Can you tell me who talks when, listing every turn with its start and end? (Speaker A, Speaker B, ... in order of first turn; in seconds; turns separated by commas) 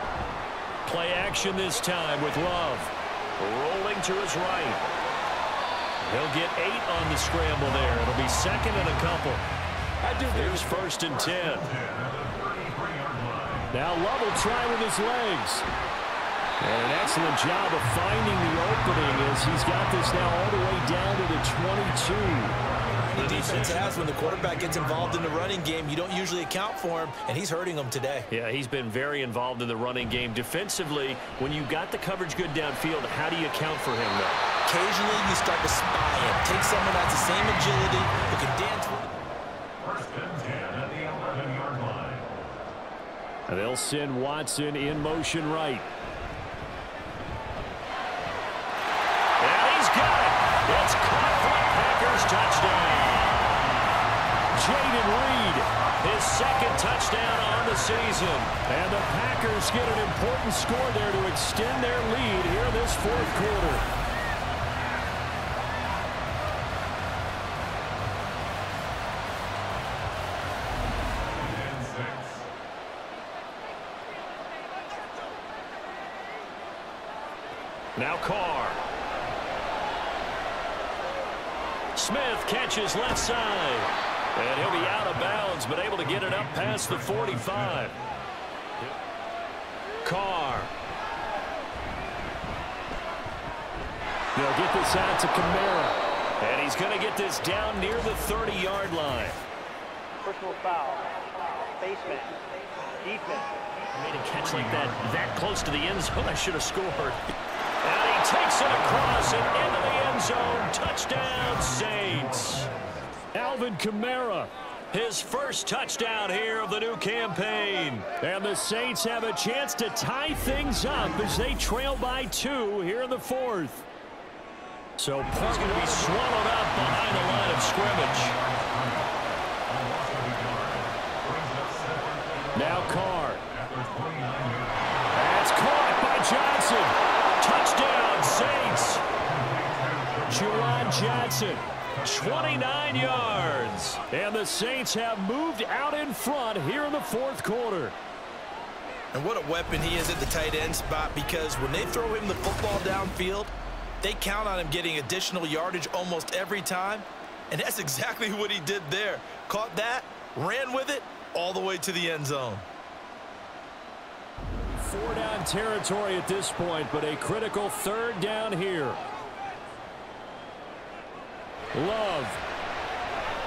Speaker A: 0.9-4.8, Speaker A: 6.0-9.4, Speaker B: 10.0-11.1, Speaker A: 10.3-11.7, Speaker C: 11.1-13.7, Speaker A: 13.7-15.7, Speaker A: 16.6-22.6, Speaker B: 23.0-28.3, Speaker A: 23.1-23.9, Speaker C: 23.6-25.3, Speaker A: 28.3-34.5, Speaker B: 34.7-39.2, Speaker C: 39.8-42.4, Speaker A: 43.5-45.9, Speaker A: 49.4-53.4, Speaker A: 54.5-63.8, Speaker C: 71.5-72.3, Speaker A: 78.0-78.8, Speaker A: 82.0-88.0, Speaker C: 86.0-88.1, Speaker A: 90.0-90.7, Speaker A: 94.4-99.4, Speaker A: 100.3-101.1, Speaker A: 101.8-102.4, Speaker A: 103.0-107.2, Speaker C: 104.3-105.3, Speaker A: 107.8-112.7, Speaker C: 111.2-112.8, Speaker A: 113.3-123.8, Speaker A: 125.0-128.3, Speaker C: 125.4-135.1, Speaker A: 132.6-133.4, Speaker A: 135.1-139.0, Speaker C: 139.2-143.3, Speaker A: 140.3-148.0, Speaker B: 149.1-162.6, Speaker A: 164.6-169.0, Speaker A: 171.7-172.4